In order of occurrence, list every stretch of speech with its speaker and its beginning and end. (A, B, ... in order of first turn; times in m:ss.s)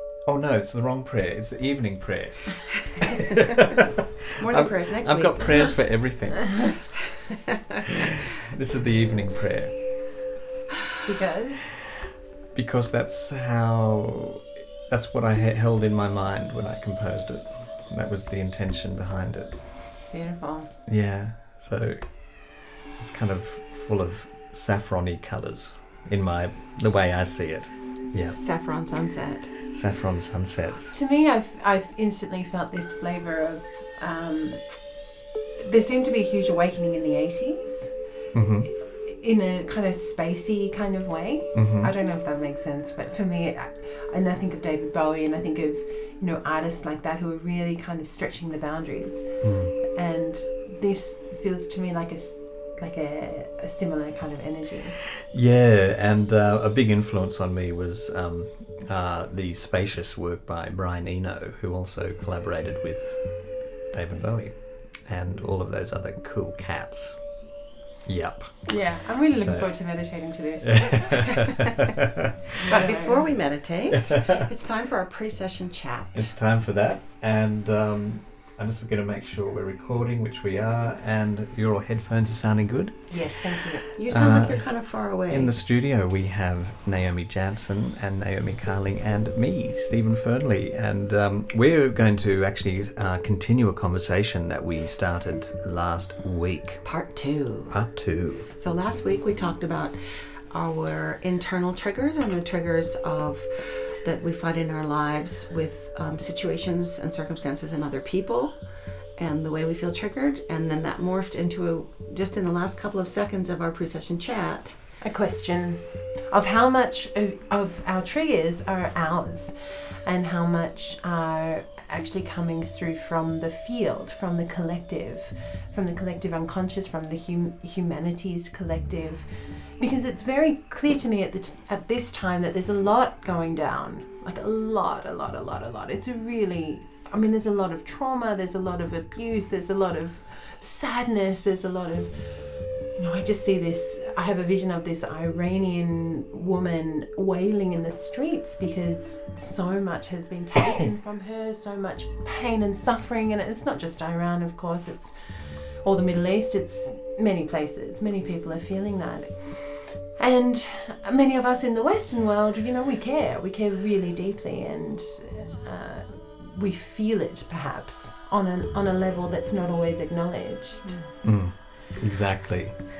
0:00.3-0:03.7 A
0:04.4-0:05.9 B
0:04.4-0:07.1 A
0:08.0-0:09.9 A
0:11.0-0:11.7 C
0:12.5-0:19.6 A
0:20.1-0:20.7 C
0:20.9-0:22.0 A
0:23.0-0:28.4 A
0:28.2-0:29.5 B
0:29.7-0:31.0 A
0:30.9-0:34.6 C
0:35.6-0:37.9 C
0:38.3-0:38.7 A
0:38.7-0:55.0 C
0:41.5-0:41.9 A
0:49.4-0:49.8 A
0:55.3-1:07.4 A
1:08.0-1:12.1 A
1:08.7-1:11.6 C
1:12.6-1:13.2 C
1:12.7-1:16.3 B
1:14.0-1:14.4 A
1:16.1-1:23.4 A
1:23.1-1:23.9 C
1:24.0-1:25.5 B
1:24.0-1:36.8 A
1:36.8-1:37.9 B
1:37.7-1:38.5 A
1:38.6-1:40.0 B
1:40.5-1:48.5 B
1:49.2-1:54.8 B
1:55.0-2:51.0 C
2:50.8-2:51.2 B
2:51.2-2:52.8 A